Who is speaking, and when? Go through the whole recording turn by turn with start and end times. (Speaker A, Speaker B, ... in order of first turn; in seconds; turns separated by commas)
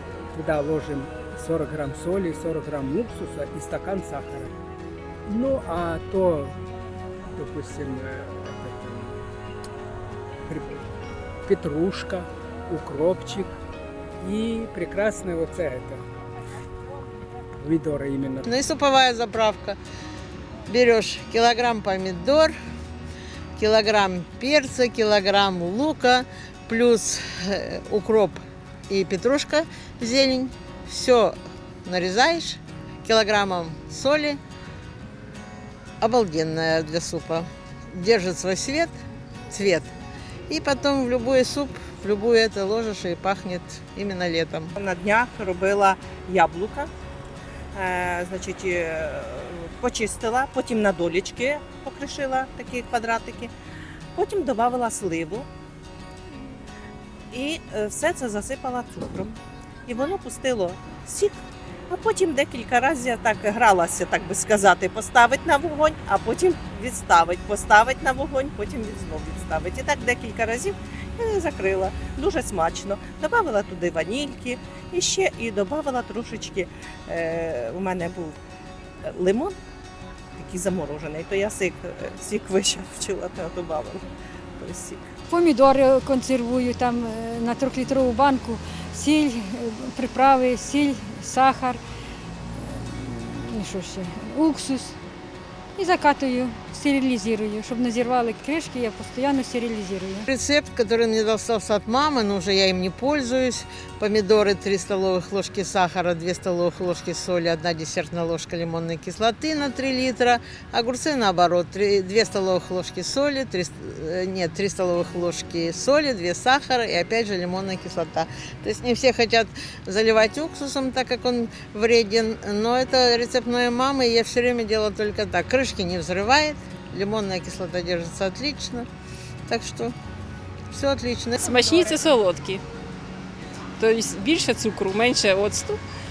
Speaker A: 0.3-4.5, Speaker A: 5.3-6.6, Speaker A: 7.3-9.2, Speaker A: 10.5-10.8, Speaker A: 11.4-13.5, Speaker A: 14.2-16.0, Speaker A: 17.6-18.4, Speaker B: 18.4-19.8, Speaker B: 20.7-22.5, Speaker B: 23.6-34.4, Speaker B: 36.0-38.9, Speaker B: 39.5-39.9, Speaker B: 40.5-44.7, Speaker C: 44.8-46.9, Speaker C: 47.7-53.5, Speaker C: 54.1-55.5, Speaker C: 57.3-78.3, Speaker C: 79.0-79.5, Speaker C: 80.3-84.1, Speaker C: 84.6-85.1, Speaker D: 85.3-91.8, Speaker D: 92.5-95.0, Speaker D: 95.8-100.2, Speaker B: 100.3-128.9, Speaker B: 129.5-129.9, Speaker B: 130.7-131.9, Speaker E: 131.4-132.6, Speaker E: 133.8-135.8